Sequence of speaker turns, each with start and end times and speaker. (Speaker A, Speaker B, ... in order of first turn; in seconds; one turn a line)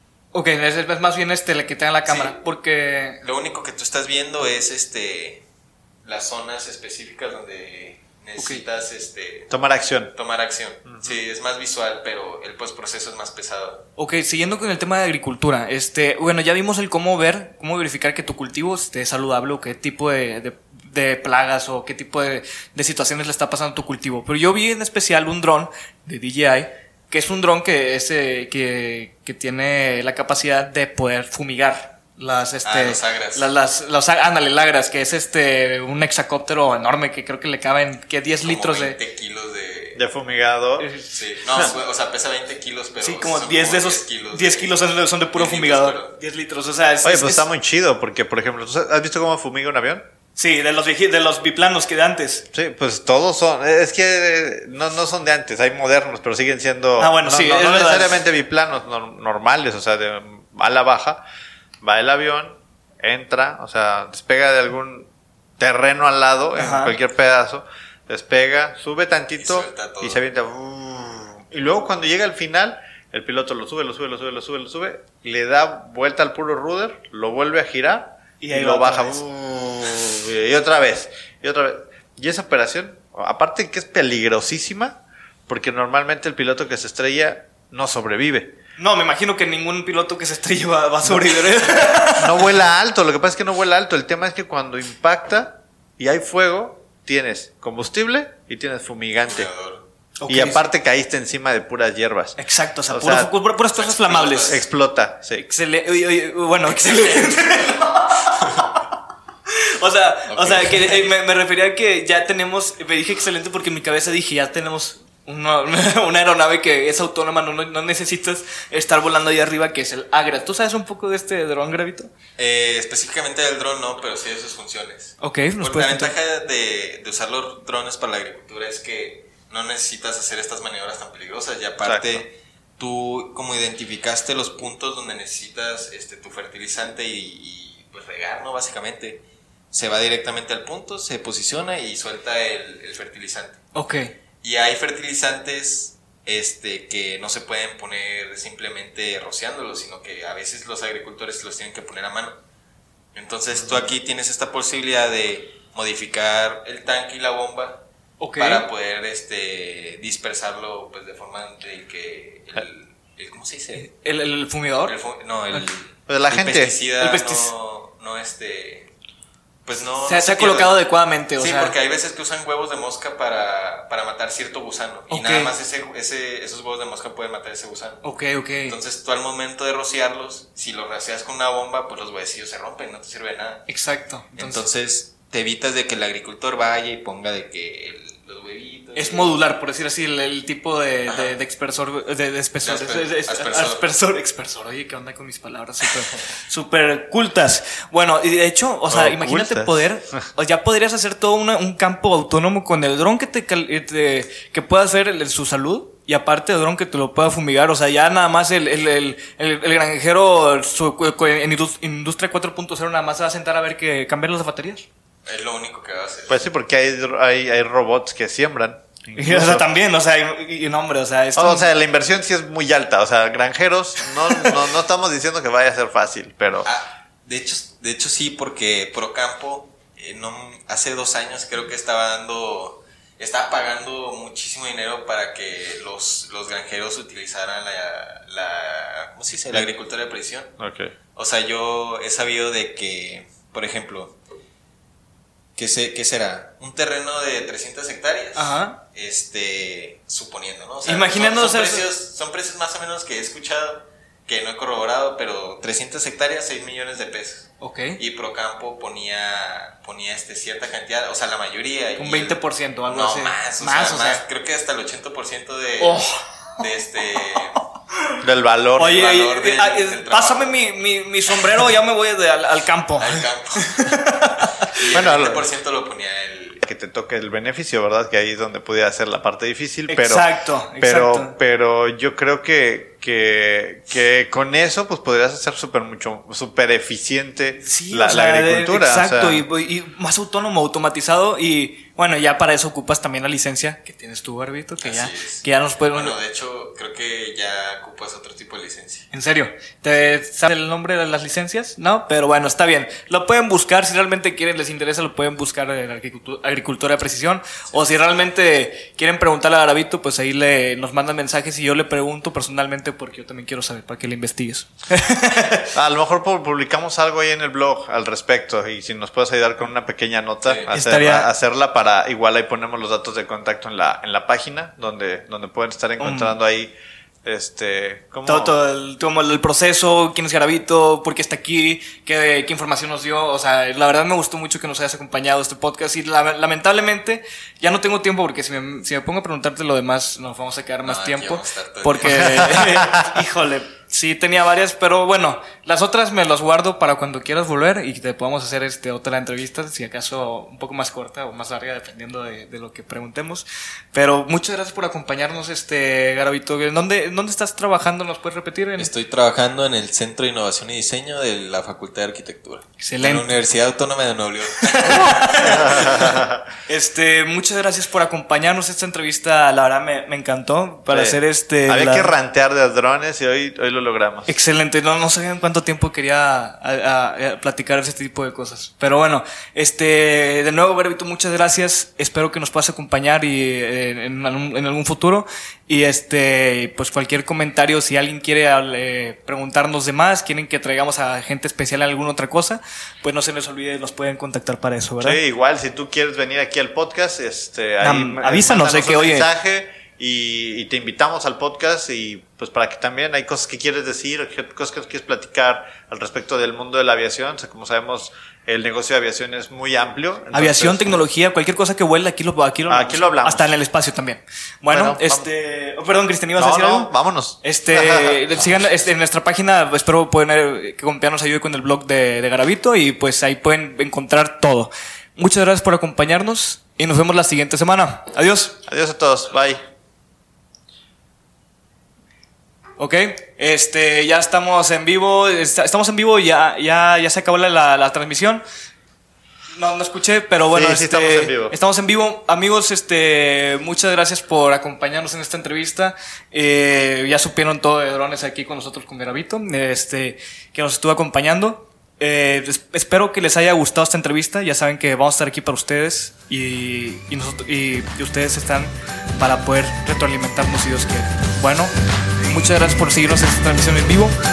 Speaker A: 0.3-3.2
Speaker B: 2.0-2.4
Speaker B: 3.2-5.5
Speaker B: 6.0-9.5
Speaker A: 8.4-8.7
Speaker C: 9.5-10.1
Speaker B: 10.1-13.9
Speaker C: 10.9-11.1
Speaker A: 14.0-39.0
Speaker B: 32.6-33.5
Speaker B: 38.4-40.0
Speaker C: 40.0-40.9
Speaker A: 40.8-41.6
Speaker B: 41.1-46.1
Speaker A: 43.0-47.5
Speaker C: 47.0-50.0
Speaker A: 50.4-52.5
Speaker C: 52.5-61.2
Speaker A: 57.0-58.2
Speaker C: 61.8-65.1
Speaker C: 65.6-88.5
Speaker A: 66.5-67.0
Speaker B: 69.4-70.2
Speaker A: 78.4-79.2
Speaker A: 88.8-92.3
Speaker C: 91.0-91.4
Speaker C: 92.2-99.5
Speaker B: 99.2-99.8
Speaker A: 100.2-100.6
Speaker C: 100.3-102.4
Speaker A: 102.4-104.6
Speaker C: 102.9-103.3
Speaker B: 103.7-104.6
Speaker C: 104.5-105.4
Speaker A: 105.3-108.7
Speaker A: 109.8-122.1
Speaker B: 110.3-111.1
Speaker B: 122.4-143.6
Speaker A: 125.2-126.1
Speaker C: 131.8-132.2
Speaker A: 143.7-144.1
Speaker B: 144.4-152.4
Speaker B: 153.1-157.8
Speaker C: 153.6-153.9
Speaker A: 158.2-158.7
Speaker B: 158.4-163.9
Speaker A: 163.7-164.9
Speaker B: 164.9-168.9
Speaker C: 166.1-166.7
Speaker A: 167.0-167.5
Speaker B: 169.7-170.8
Speaker A: 170.0-171.8
Speaker B: 171.4-178.0
Speaker A: 175.1-175.5
Speaker A: 178.0-178.8
Speaker B: 178.7-183.7
Speaker A: 183.7-184.6
Speaker B: 184.3-189.4
Speaker A: 188.9-214.8
Speaker B: 191.1-191.3
Speaker B: 192.6-193.9
Speaker C: 198.9-200.1
Speaker B: 215.2-216.4
Speaker C: 216.3-219.7
Speaker A: 219.2-221.7
Speaker C: 221.3-226.7
Speaker B: 226.6-240.5
Speaker C: 240.6-240.9
Speaker B: 241.1-244.2
Speaker B: 245.6-266.0
Speaker A: 248.3-248.8
Speaker A: 250.8-251.8
Speaker A: 257.6-258.0
Speaker A: 262.0-264.2
Speaker A: 265.8-266.2
Speaker B: 266.6-267.6
Speaker C: 268.2-269.0
Speaker A: 268.8-274.8
Speaker B: 268.8-270.6
Speaker B: 273.0-276.6
Speaker C: 274.9-275.4
Speaker C: 276.6-289.4
Speaker A: 279.9-281.4
Speaker A: 287.6-296.1
Speaker B: 294.8-299.1
Speaker A: 299.1-315.7
Speaker C: 315.7-328.6
Speaker B: 320.4-320.7
Speaker A: 320.7-321.3
Speaker A: 326.0-326.4
Speaker A: 328.2-358.9
Speaker B: 340.8-342.8
Speaker C: 342.6-343.0
Speaker B: 358.8-365.9
Speaker A: 362.8-363.3
Speaker A: 364.8-366.1
Speaker C: 365.4-366.4
Speaker A: 366.7-372.1
Speaker C: 370.9-374.3
Speaker A: 374.3-395.2
Speaker C: 395.0-411.0
Speaker A: 397.8-399.3
Speaker A: 410.3-428.6
Speaker C: 412.7-413.5
Speaker C: 414.7-415.3
Speaker C: 416.4-418.3
Speaker C: 428.7-429.6
Speaker A: 432.8-438.4
Speaker A: 439.5-461.7
Speaker C: 440.5-441.6
Speaker A: 462.2-464.2